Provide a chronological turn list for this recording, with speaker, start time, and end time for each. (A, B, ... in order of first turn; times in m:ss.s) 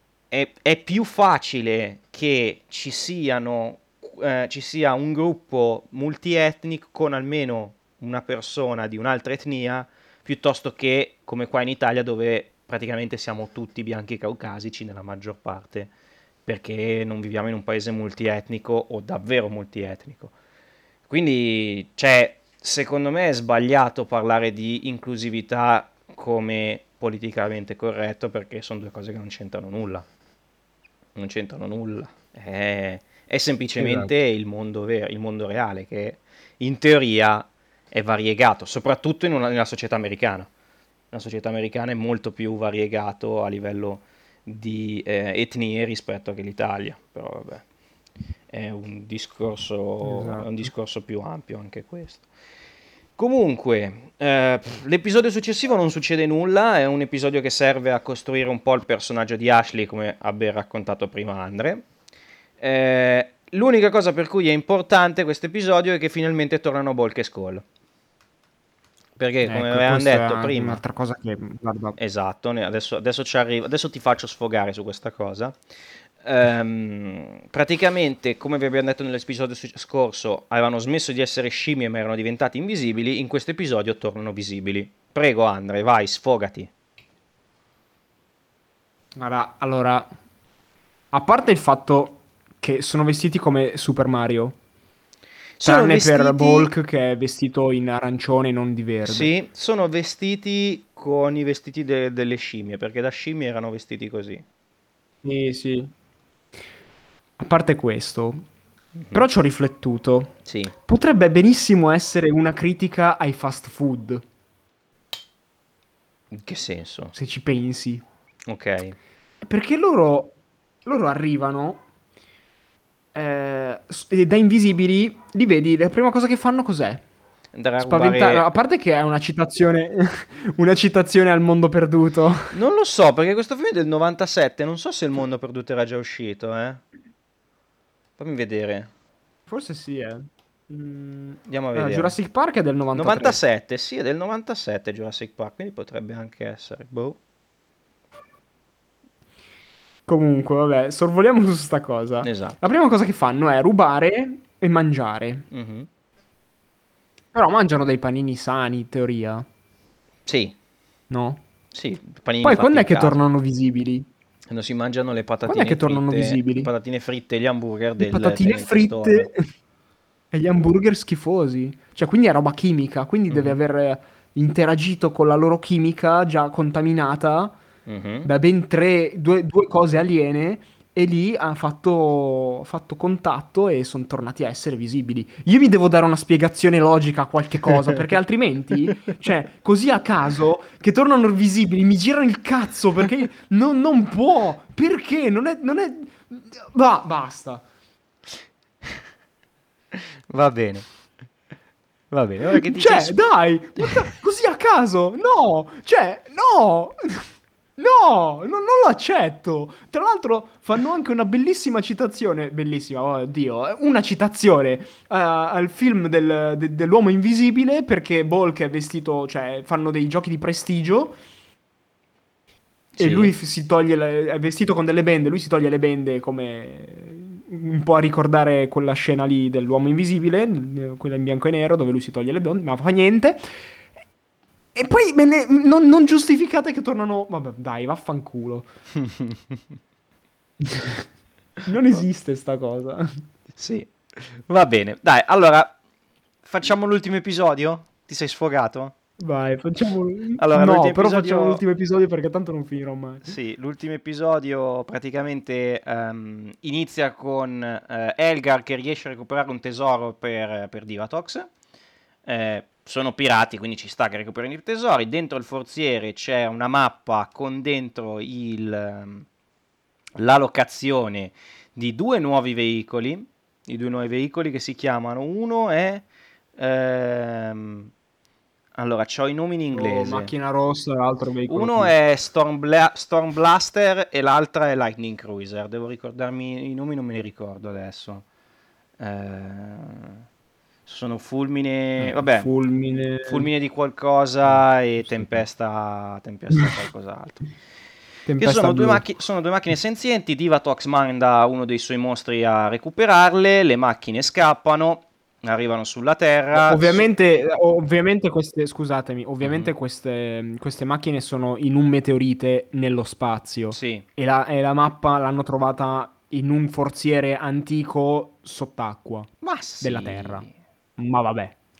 0:00.3-0:15.9 A
0:16.4-0:20.3 A
0:21.1-0:30.0 A
0:31.2-0:40.5 A
0:33.8-0:34.1 B
0:41.1-0:47.6 A
0:48.5-0:52.2 A
0:50.0-0:50.6 B
0:53.2-1:01.8 A
1:02.6-1:07.6 A
1:09.2-1:10.8 A
1:09.4-1:12.0 B
1:12.0-1:15.6 A
1:16.2-1:26.7 A
1:29.2-1:30.1 B
1:31.1-1:34.6 B
1:35.6-1:36.7 A
1:35.6-1:39.3 B
1:39.0-1:44.4 A
1:45.2-1:45.9 B
1:47.4-1:48.5 B
1:49.0-1:49.2 A
1:49.1-1:50.3 B
1:50.4-1:50.7 A
1:50.8-1:54.2 B
1:56.3-1:57.1 A
1:57.1-1:58.0 B
1:58.5-1:59.0 A
1:59.4-2:01.8 B
2:03.1-2:07.0 B
2:07.5-2:08.4 A
2:07.8-2:12.5 B
2:12.5-2:16.8 A
2:18.2-2:18.9 A
2:19.5-2:23.4 B
2:21.5-2:22.2 A
2:22.9-2:27.2 A
2:30.1-2:35.4 B
2:32.2-2:32.6 A
2:35.5-2:35.9 A
2:37.3-2:39.4 B
2:40.2-2:40.6 A
2:41.1-2:41.4 B
2:41.7-2:43.2 A
2:42.4-2:44.1 B
2:44.5-2:49.3 A
2:45.4-2:46.7 B
2:48.0-2:49.4 B
2:50.3-2:57.6 B
2:53.3-2:53.6 A
2:57.8-2:58.3 A
2:58.2-3:17.6 B
3:19.9-3:20.9 A
3:22.1-3:23.1 A
3:22.5-3:41.2 B
3:43.0-3:43.3 A
3:43.0-3:53.6 B
3:54.7-3:58.7 B
3:58.9-3:59.6 A
4:00.6-4:01.0 B
4:01.6-4:03.2 B
4:03.6-4:05.8 A
4:06.4-4:08.9 A
4:09.2-4:13.4 B
4:10.4-4:11.6 A
4:13.2-4:21.5 A
4:22.2-4:29.2 A
4:30.2-4:36.0 A
4:36.6-4:37.9 A
4:38.8-4:40.3 A
4:39.7-4:41.9 B
4:41.5-4:48.2 A
4:49.0-4:50.2 A
4:50.8-4:52.5 A
4:52.0-4:53.5 B
4:53.2-4:57.5 A
4:54.4-4:55.4 B
4:58.3-4:59.0 B
4:58.4-5:07.0 A
5:06.5-5:19.3 B
5:09.4-5:09.7 A
5:13.7-5:14.0 A
5:19.4-5:20.5 A
5:19.8-5:20.4 B
5:21.0-5:21.6 B